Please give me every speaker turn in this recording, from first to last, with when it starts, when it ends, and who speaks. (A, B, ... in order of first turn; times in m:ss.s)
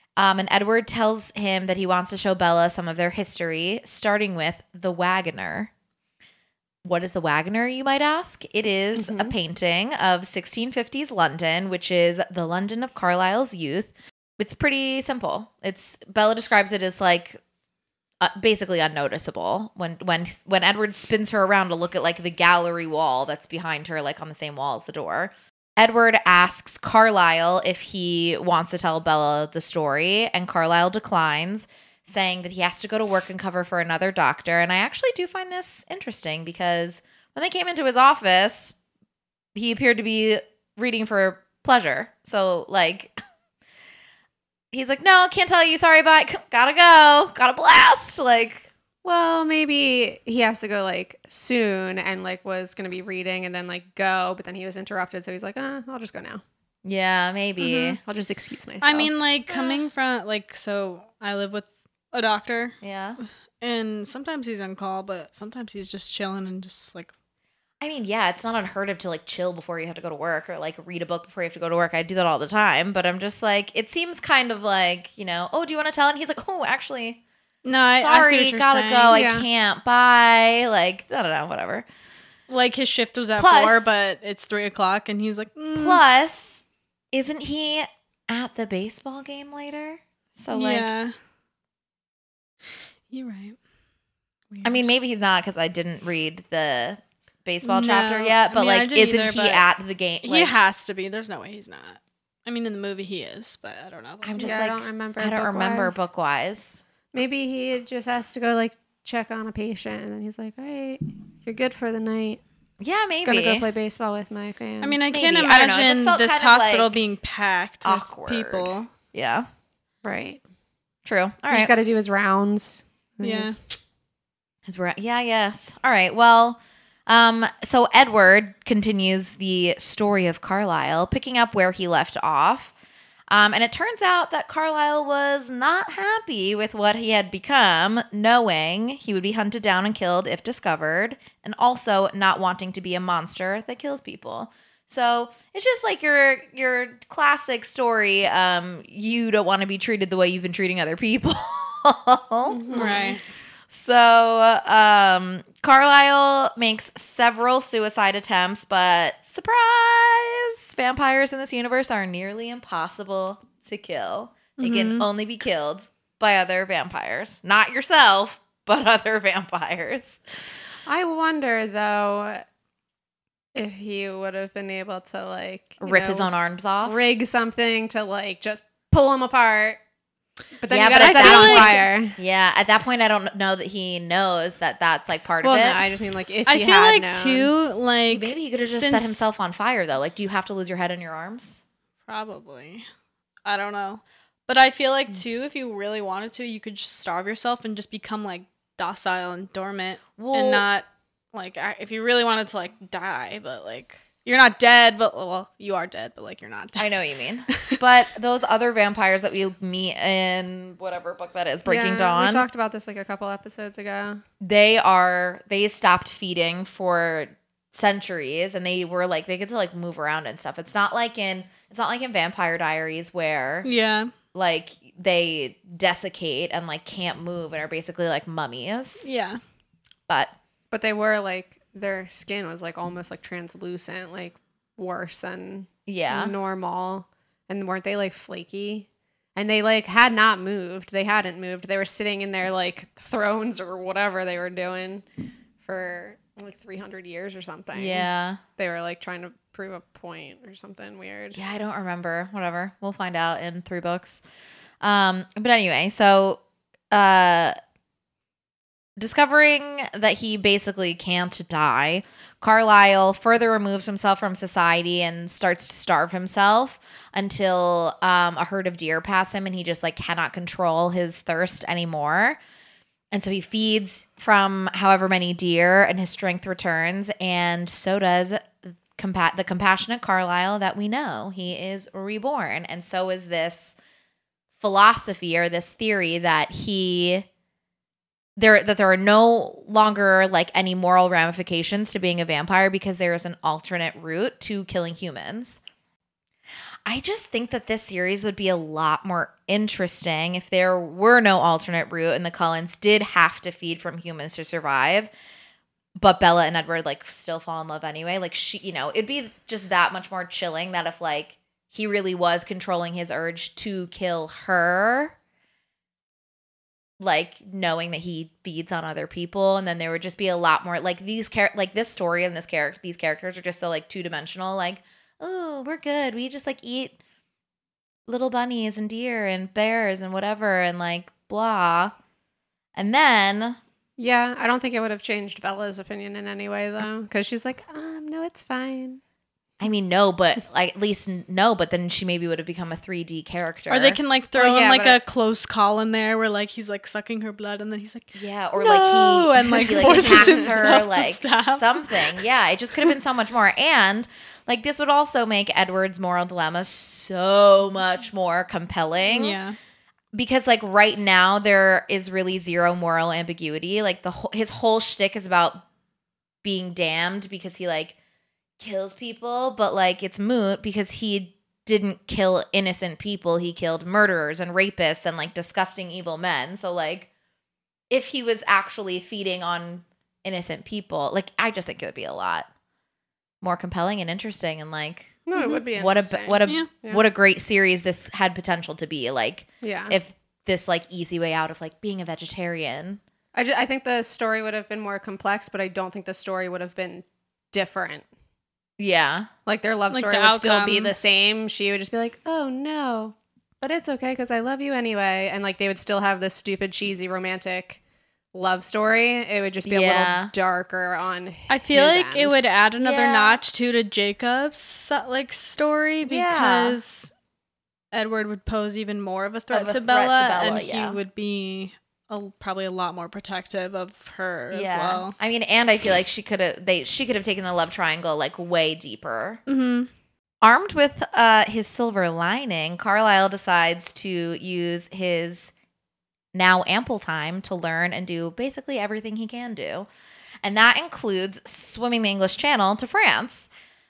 0:00.2-0:05.7 A
0:06.8-0:17.4 A
0:09.0-0:09.3 B
0:18.2-0:38.8 A
0:39.5-0:43.2 A
0:44.7-0:48.7 A
0:49.0-0:56.4 B
0:56.8-0:58.0 A
0:57.6-0:58.0 C
0:58.0-0:59.7 B
0:58.8-1:02.8 C
1:02.8-1:03.2 A
1:03.6-1:07.1 C
1:07.8-1:17.2 A
1:17.6-1:19.2 C
1:17.8-1:21.9 A
1:19.1-1:19.5 B
1:22.5-1:26.0 C
1:23.4-1:23.9 A
1:25.8-1:30.9 A
1:30.5-1:31.1 C
1:33.1-1:33.6 C
1:34.6-1:40.6 A
1:37.6-1:39.7 C
1:40.2-1:44.6 C
1:44.2-1:46.8 A
1:44.4-1:46.0 B
1:47.1-1:52.4 B
1:52.8-1:53.7 A
1:53.2-1:55.0 B
1:54.8-1:58.9 C
1:55.1-1:57.0 A
1:57.8-1:59.5 A
2:00.0-2:00.4 B
2:01.0-2:01.7 A
2:01.5-2:03.6 B
2:03.2-2:03.6 C
2:04.6-2:12.7 A
2:13.3-2:33.1 A
2:32.5-2:33.0 B
2:32.7-2:33.2 C
2:33.7-2:50.2 A
2:44.6-2:45.1 C
2:50.9-2:52.4 B
2:53.6-2:56.3 B
2:55.8-2:57.0 A
2:56.8-2:59.8 B
3:00.6-3:02.2 B
3:00.7-3:05.8 A
3:01.0-3:01.9 C
3:05.4-3:07.5 B
3:06.5-3:09.3 C
3:08.1-3:11.6 A
3:12.1-3:12.9 C
3:13.4-3:27.8 C
3:20.2-3:20.7 A
3:26.8-3:32.5 A
3:31.7-3:34.2 B
3:34.4-3:43.7 A
3:43.6-3:44.1 C
3:44.3-3:49.1 A
3:49.0-3:49.4 C
3:50.1-3:50.4 A
3:50.7-4:05.0 B
3:55.9-3:56.3 A
4:05.6-4:11.4 B
4:07.7-4:08.4 A
4:11.3-4:14.2 A
4:14.8-4:17.6 A
4:19.0-4:32.4 A
4:33.1-4:43.8 A
4:44.6-4:47.3 A
4:48.4-4:55.6 A
4:56.9-5:05.1 A
5:06.0-5:15.2 A
5:17.0-5:27.0 A
5:28.1-5:32.0 A
5:32.8-5:33.6 A
5:34.0-5:39.0 B
5:39.6-5:44.0 A
5:43.7-5:52.2 C
5:44.3-5:45.0 B
5:48.2-5:59.4 A
5:59.1-5:59.6 C
6:00.1-6:05.6 A
6:06.4-6:08.0 A
6:08.6-6:17.1 A
6:17.9-6:22.5 A
6:23.4-6:25.2 A
6:25.3-6:27.0 B
6:25.7-6:33.0 A
6:26.4-6:26.7 C
6:29.6-6:30.0 B
6:33.3-6:38.1 B
6:38.8-6:39.3 A
6:39.5-6:47.8 B
6:39.9-6:40.9 C
6:48.3-6:52.4 B
6:49.6-6:50.3 A
6:51.5-6:57.1 C
6:52.8-6:53.4 A
6:56.0-6:56.8 A
6:57.9-7:05.2 C
6:59.5-7:01.0 A
7:04.5-7:09.4 A
7:09.5-7:09.9 C
7:10.4-7:15.5 A
7:16.3-7:19.9 A
7:20.4-7:23.5 A